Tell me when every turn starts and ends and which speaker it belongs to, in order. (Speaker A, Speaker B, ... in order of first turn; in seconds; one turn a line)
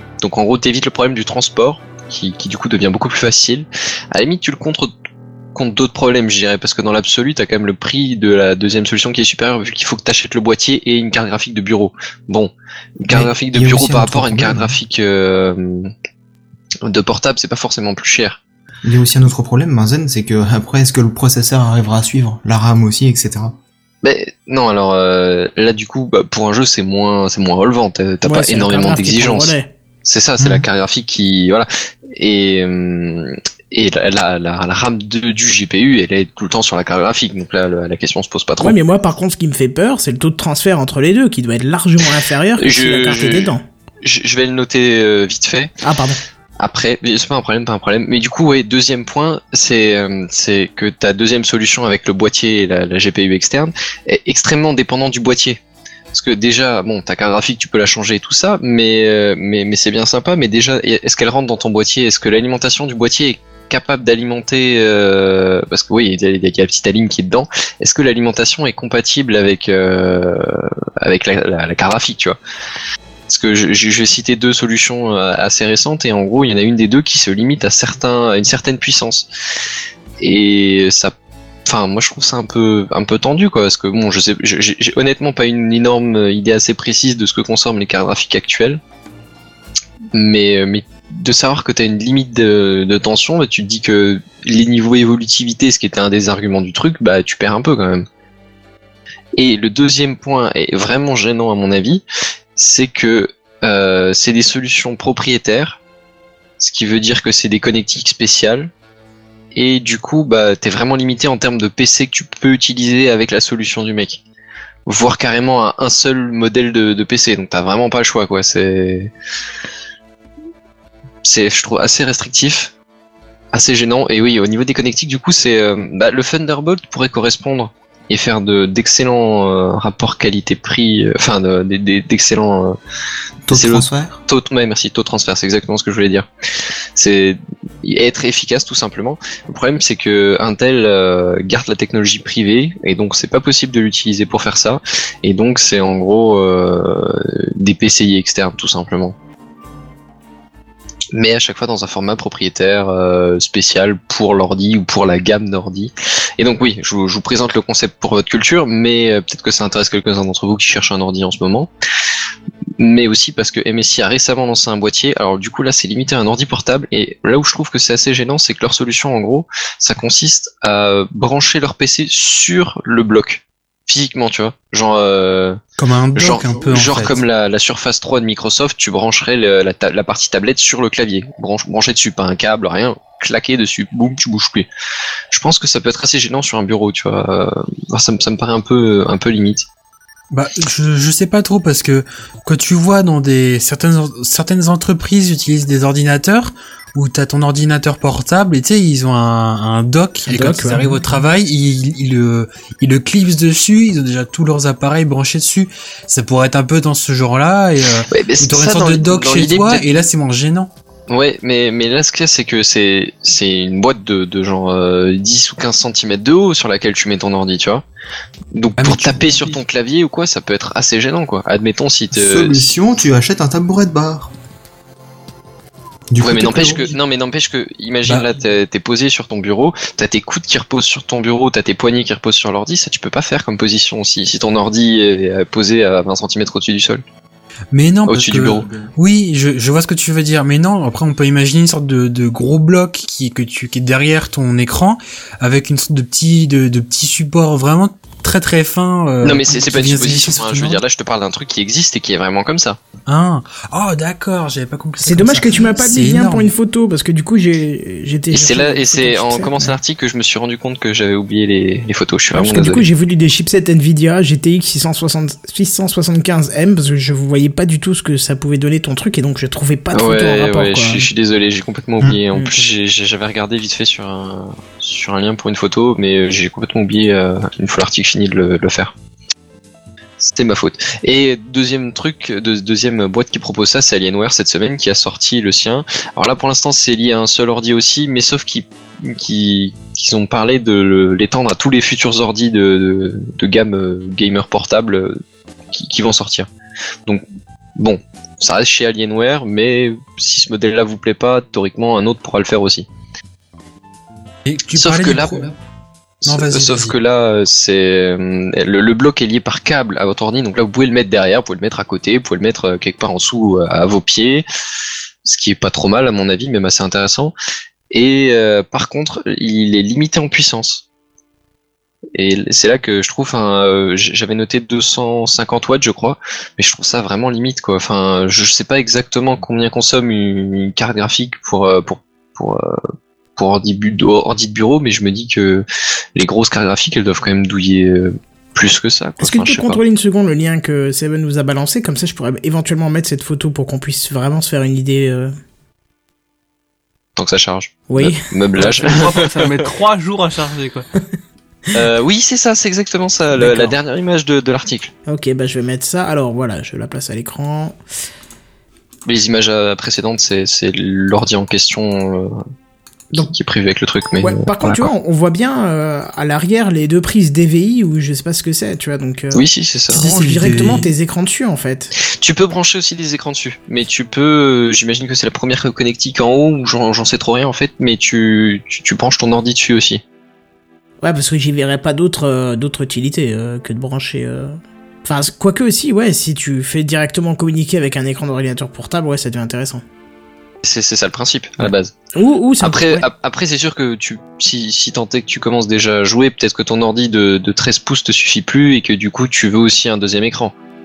Speaker A: 0.2-4.9
Speaker A: 5.5-15.9
Speaker B: 13.1-14.7
Speaker A: 16.8-18.4
Speaker B: 18.8-23.6
Speaker A: 24.0-29.5
Speaker C: 28.2-29.7
Speaker A: 30.1-38.8
Speaker B: 30.4-30.6
Speaker C: 38.6-43.6
Speaker A: 42.6-45.7
Speaker C: 45.8-46.2
Speaker A: 46.6-55.6
Speaker A: 56.1-72.4
Speaker A: 73.3-79.3
Speaker A: 80.2-81.1
Speaker A: 81.7-88.8
Speaker A: 90.1-98.0
Speaker A: 99.4-102.0
Speaker A: 102.6-105.8
Speaker A: 106.6-108.7
Speaker A: 109.5-114.2
Speaker A: 114.9-119.1
Speaker A: 121.2-122.7
Speaker A: 123.5-132.8
Speaker B: 133.4-134.2
Speaker A: 133.5-136.3
Speaker A: 136.9-149.2
Speaker A: 151.1-161.7
Speaker A: 162.8-175.6
Speaker D: 175.8-177.2
Speaker A: 176.1-184.7
Speaker A: 185.3-189.6
Speaker D: 190.3-210.7
Speaker C: 200.3-200.8
Speaker A: 208.1-209.9
Speaker A: 211.1-217.8
Speaker A: 218.5-222.7
Speaker D: 218.8-219.3
Speaker B: 222.1-224.3
Speaker B: 226.1-226.9
Speaker A: 226.2-237.0
Speaker D: 237.7-250.8
Speaker A: 238.1-238.7
Speaker A: 249.2-252.8
Speaker D: 253.1-256.5
Speaker C: 255.0-259.8
Speaker A: 258.3-262.9
Speaker C: 262.3-271.1
Speaker A: 269.9-278.9
Speaker A: 280.2-295.2
Speaker A: 295.7-296.5
Speaker A: 297.8-302.9
Speaker D: 304.4-305.5
Speaker A: 304.8-305.5
Speaker A: 306.2-314.4
Speaker D: 306.3-306.9
Speaker A: 315.2-317.3
Speaker A: 317.9-320.8
Speaker A: 322.1-332.8
Speaker A: 333.4-335.6
Speaker A: 336.2-339.8
Speaker C: 339.2-345.3
Speaker A: 347.2-349.7
Speaker C: 347.9-348.2
Speaker E: 348.6-350.9
Speaker A: 351.7-354.9
Speaker C: 353.4-353.7
Speaker C: 355.1-357.8
Speaker A: 359.1-362.4
Speaker A: 363.2-364.9
Speaker C: 364.2-369.4
Speaker A: 369.3-370.0
Speaker D: 369.9-370.9
Speaker C: 369.9-371.9
Speaker A: 372.2-380.0
Speaker C: 381.0-389.8
Speaker A: 390.6-391.9
Speaker C: 392.1-393.1
Speaker A: 392.6-400.5